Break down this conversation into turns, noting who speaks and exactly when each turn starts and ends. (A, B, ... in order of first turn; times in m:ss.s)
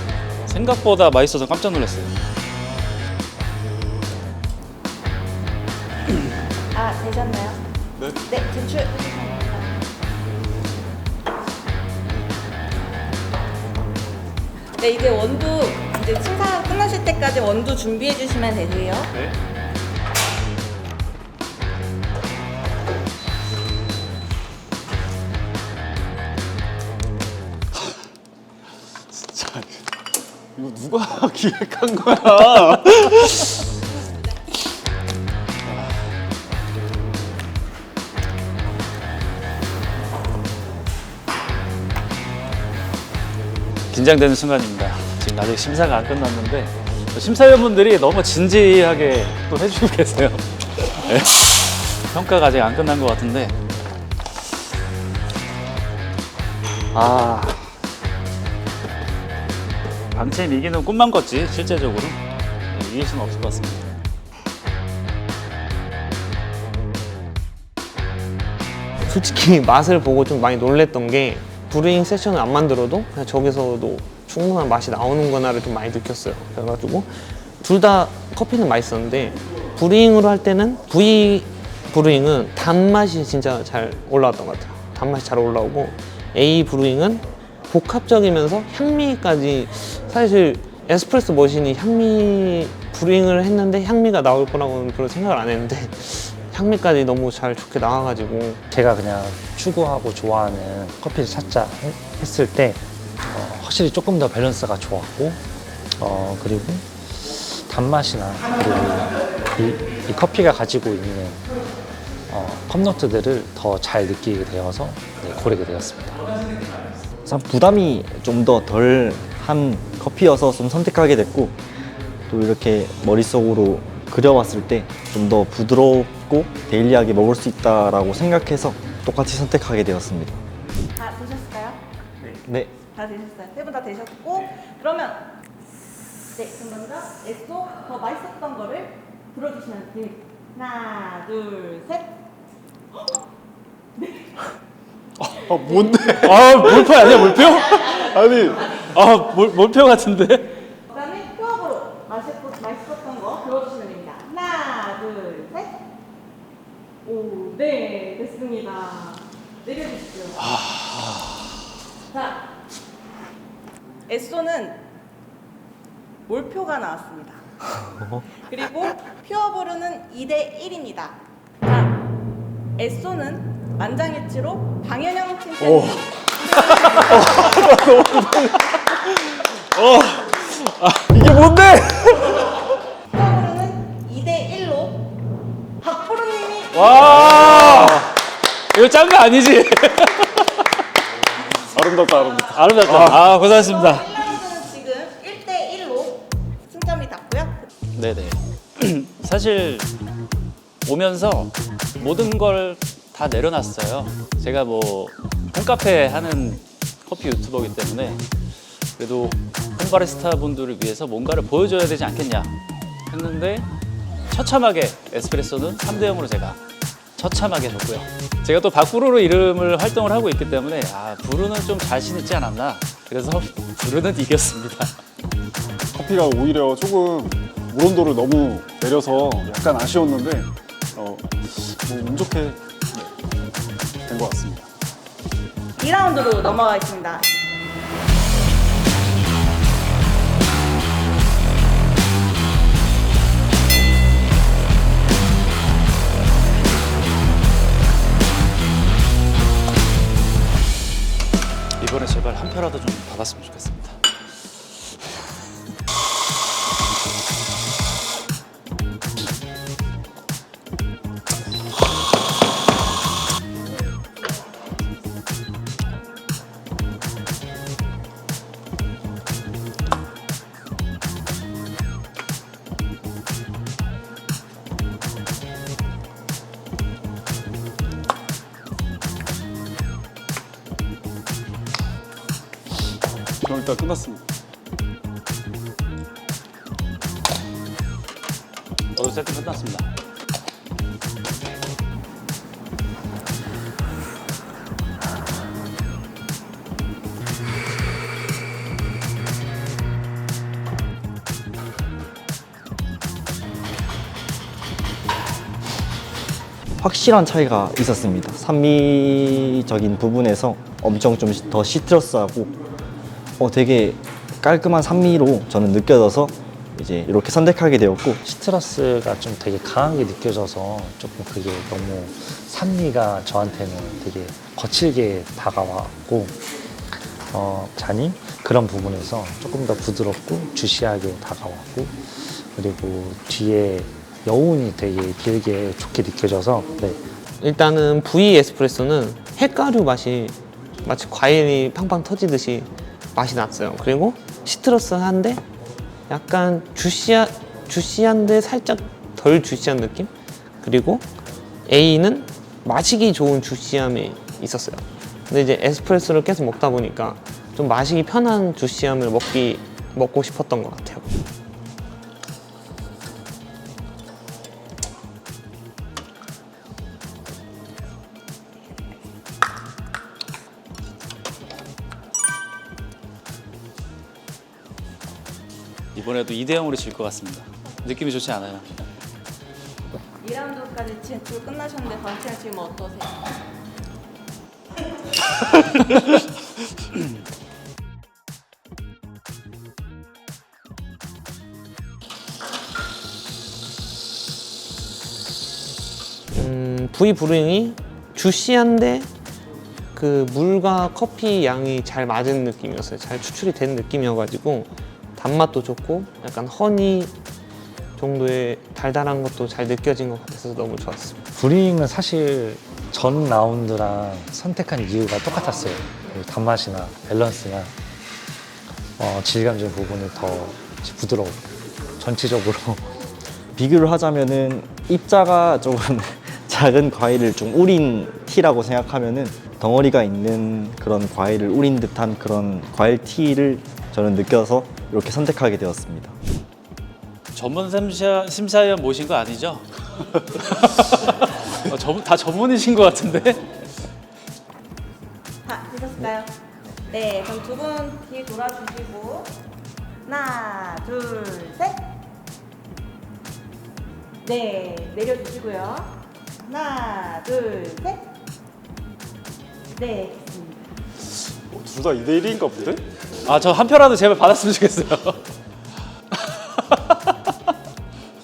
0:00.5-0:02.1 A
0:06.7-0:07.6 B
0:08.3-0:09.9 B
0:14.8-0:19.1 B
0:29.1-0:29.8 C
0:30.6-0:33.5 C
0:43.9-0:53.6 A
0:56.9-0:57.6 A
1:00.1-1:02.2 A
1:02.7-1:04.0 A
1:09.1-1:38.6 D
1:38.7-1:45.4 E
1:46.0-1:51.4 E
1:52.3-1:56.2 E
1:57.2-2:01.6 F
2:02.3-2:10.4 F
2:11.0-2:11.8 B
2:12.4-2:12.7 F
2:12.9-2:15.3 B
2:16.4-2:22.2 B
2:24.0-2:24.3 B
2:25.2-2:27.2 C
2:26.2-2:28.1 A
2:27.2-2:28.2 B
2:27.9-2:28.6 C
2:28.8-2:30.5 A
2:30.9-2:35.8 B
2:37.0-2:40.4 B
2:42.1-2:42.4 B
2:44.1-2:44.8 B
2:46.2-2:47.4 B
2:48.4-2:52.0 B
2:52.8-2:57.7 B
2:55.6-2:56.1 C
2:56.8-2:58.7 C
2:59.8-3:00.3 C
3:00.5-3:01.1 A
3:01.1-3:02.5 C
3:03.1-3:05.1 B
3:05.8-3:07.2 B
3:06.7-3:08.1 A
3:07.0-3:08.1 C
3:08.7-3:10.6 A
3:11.7-3:13.3 C
3:12.5-3:14.1 A
3:13.5-3:17.7 B
3:18.0-3:19.9 A
3:20.8-3:28.2 A
3:29.0-3:32.5 A
3:33.1-3:33.7 A
3:34.3-3:36.6 A
3:37.2-3:44.9 A
3:45.9-3:52.6 C
3:54.0-3:54.7 C
3:55.8-3:57.2 B
4:11.8-4:14.0 A
4:43.4-4:44.2 C
4:49.0-4:49.9 A
5:06.8-5:12.6 F
5:13.4-5:18.2 F
5:18.2-5:26.4 E
5:26.9-5:37.0 E
5:37.4-5:45.4 D
5:46.1-5:51.1 D
5:51.6-6:01.2 D
6:16.0-6:18.7 A
6:20.2-6:23.4 B
6:36.3-6:39.1 D
6:40.0-6:47.1 D
6:48.0-6:51.2 D
6:51.3-6:57.7 E
6:59.0-7:01.4 E
7:02.0-7:02.9 E
7:03.6-7:16.2 F
7:17.3-7:19.7 A
7:20.2-7:23.5 A
7:25.4-7:26.3 B
7:26.9-7:29.3 B
7:30.0-7:31.9 B
7:34.2-7:35.9 B
7:36.4-7:38.1 B
7:39.7-7:40.7 B
7:41.4-7:42.8 C
7:43.2-7:45.2 A
7:46.6-7:47.1 A